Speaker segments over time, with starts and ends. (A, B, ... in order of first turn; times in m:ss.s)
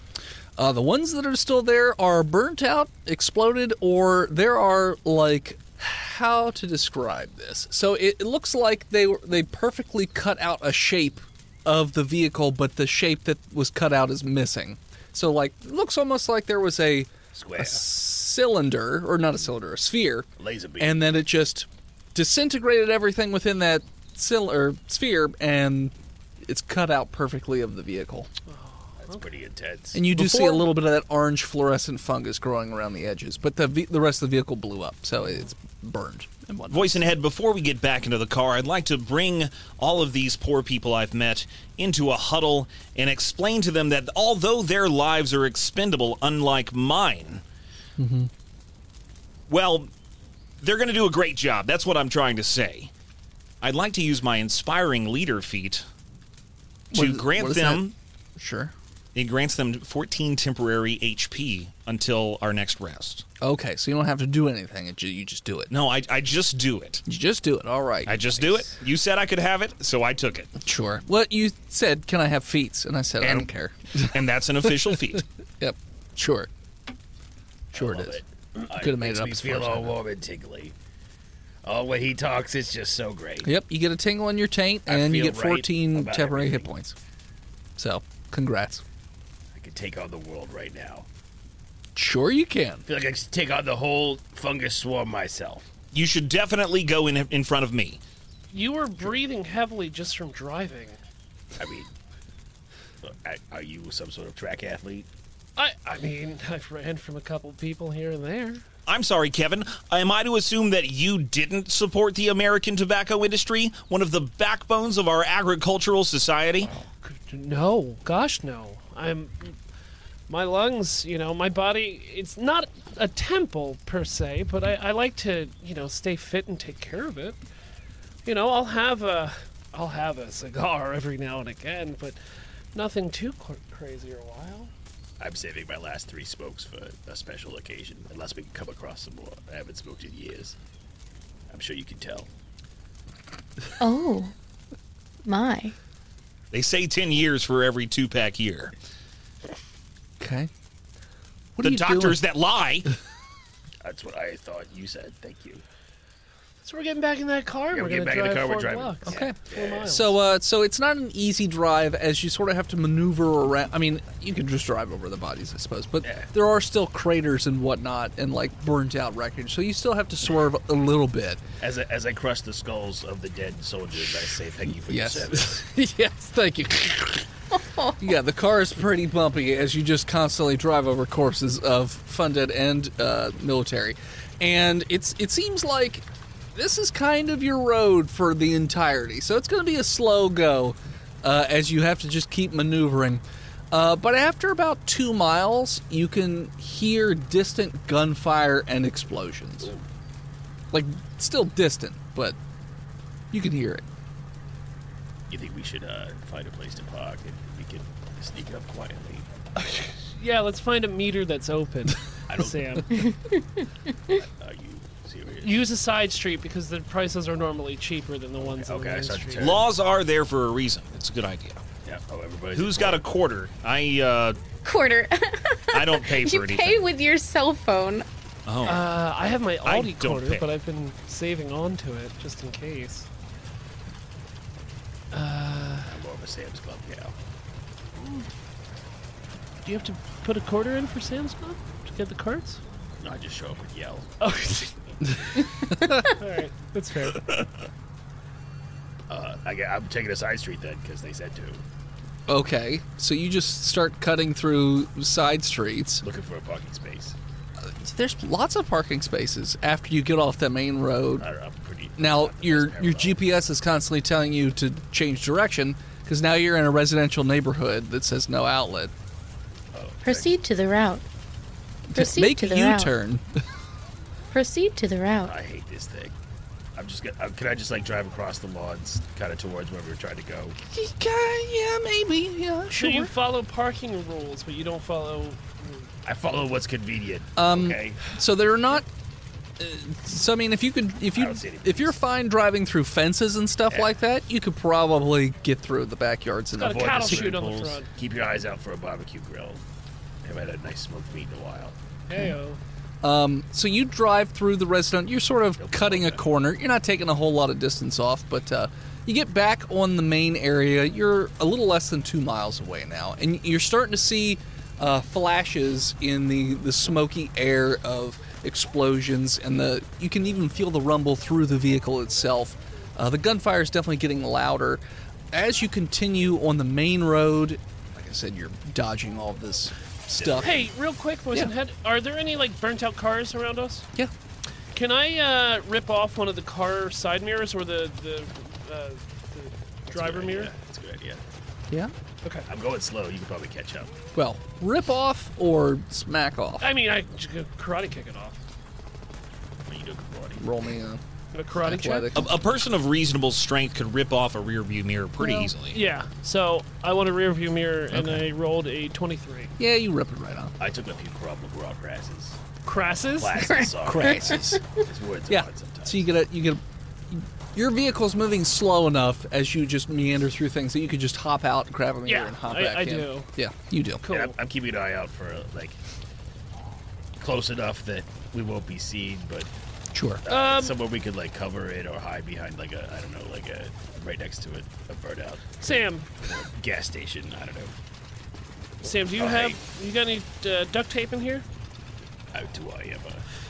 0:00.6-0:20.3 A
0:17.3-0:17.8 B
0:20.4-0:21.0 B
0:20.8-0:28.3 A
0:28.5-0:29.2 C
0:29.0-0:30.2 B
0:29.9-0:37.1 A
0:36.7-0:47.4 D
0:48.0-0:48.3 A
0:49.5-0:49.9 D
0:50.6-0:52.9 D
0:53.6-0:55.8 D
0:56.9-0:58.7 A
0:56.9-0:57.9 D
0:59.2-1:03.3 D
1:03.4-1:05.7 A
1:05.7-1:07.0 D
1:07.1-1:08.4 A
1:08.1-1:10.5 D
1:10.6-1:16.5 A
1:13.2-1:15.3 D
1:17.7-1:20.8 B
1:17.7-1:18.2 A
1:18.7-1:20.0 A
1:21.6-1:23.5 B
1:23.4-1:27.0 A
1:24.9-1:26.7 B
1:27.8-1:28.8 A
1:29.5-1:31.1 B
1:32.0-1:32.9 A
1:32.9-1:35.7 B
1:35.9-1:38.0 D
1:38.5-1:41.0 C
1:41.6-1:41.9 B
1:43.0-1:45.1 B
1:45.6-1:48.6 C
1:48.9-1:56.7 D
1:56.8-1:59.6 C
2:00.3-2:07.4 C
2:08.2-2:12.2 C
2:12.7-2:14.7 C
2:15.2-2:20.6 B
2:21.5-2:22.3 B
2:23.8-2:24.3 E
2:25.2-2:25.7 E
2:26.5-2:28.7 D
2:30.2-2:30.5 A
2:31.6-2:32.2 A
2:31.6-2:32.9 D
2:33.8-2:35.6 B
2:36.6-2:40.2 C
2:37.7-2:39.9 B
2:39.1-2:51.4 A
2:46.0-2:46.3 B
2:51.6-2:55.6 B
2:54.9-2:57.3 A
2:57.5-2:58.0 E
2:58.0-3:19.7 A
3:20.7-3:22.4 A
3:23.3-3:23.8 A
3:25.3-3:29.3 B
3:29.6-3:33.0 C
3:32.3-3:33.0 B
3:34.1-3:35.7 B
3:35.4-3:39.6 C
3:38.4-3:39.7 B
3:39.4-3:41.6 D
3:41.8-3:43.0 B
3:42.5-3:44.4 D
3:44.6-3:48.1 E
3:45.7-3:46.9 D
3:48.5-3:48.9 D
3:48.6-3:53.1 C
3:49.6-3:50.5 D
3:55.1-3:56.0 C
3:55.9-3:57.2 B
3:59.6-4:02.6 C
4:03.0-4:04.1 B
4:04.2-4:04.8 C
4:05.7-4:06.1 A
4:06.0-4:07.3 C
4:09.1-4:11.6 B
4:12.3-4:16.0 A
4:16.0-4:17.2 B
4:17.6-4:21.3 A
4:21.2-4:23.2 B
4:22.0-4:28.9 A
4:29.7-4:30.4 B
4:30.0-4:31.0 E
4:31.9-4:33.4 A
4:32.0-4:32.9 E
4:34.3-4:35.3 E
4:35.2-4:36.2 B
4:36.8-4:40.6 B
4:40.7-4:43.1 A
4:42.7-4:45.8 C
4:46.0-4:48.0 B
4:47.4-4:48.9 A
4:49.6-4:57.3 A
4:51.1-4:52.0 B
4:56.5-4:57.9 C
4:56.6-4:59.6 B
5:00.2-5:01.8 B
5:02.1-5:02.6 C
5:03.0-5:30.7 A
5:05.6-5:06.2 B
5:30.2-5:30.7 B
5:30.4-5:33.9 C
5:34.7-5:40.5 C
5:39.9-5:41.2 B
5:42.5-5:43.9 B
5:44.1-5:46.7 A
5:46.6-5:48.4 C
5:49.7-5:50.5 B
5:50.4-5:51.0 A
5:51.3-5:52.2 C
5:51.6-5:52.3 A
5:52.1-5:55.8 D
5:55.7-5:59.5 C
5:57.9-5:58.2 A
5:59.6-6:00.5 A
6:00.6-6:02.4 B
6:02.6-6:03.4 C
6:03.1-6:06.1 B
6:03.4-6:04.6 E
6:03.8-6:04.6 A
6:05.3-6:14.0 A
6:12.1-6:13.3 C
6:14.0-6:14.4 C
6:14.1-6:15.8 B
6:17.2-6:19.5 B
6:19.9-6:20.2 A
6:20.2-6:27.7 B
6:20.3-6:20.8 C
6:25.6-6:26.1 C
6:28.8-6:31.4 C
6:29.2-6:29.6 B
6:32.3-6:33.2 B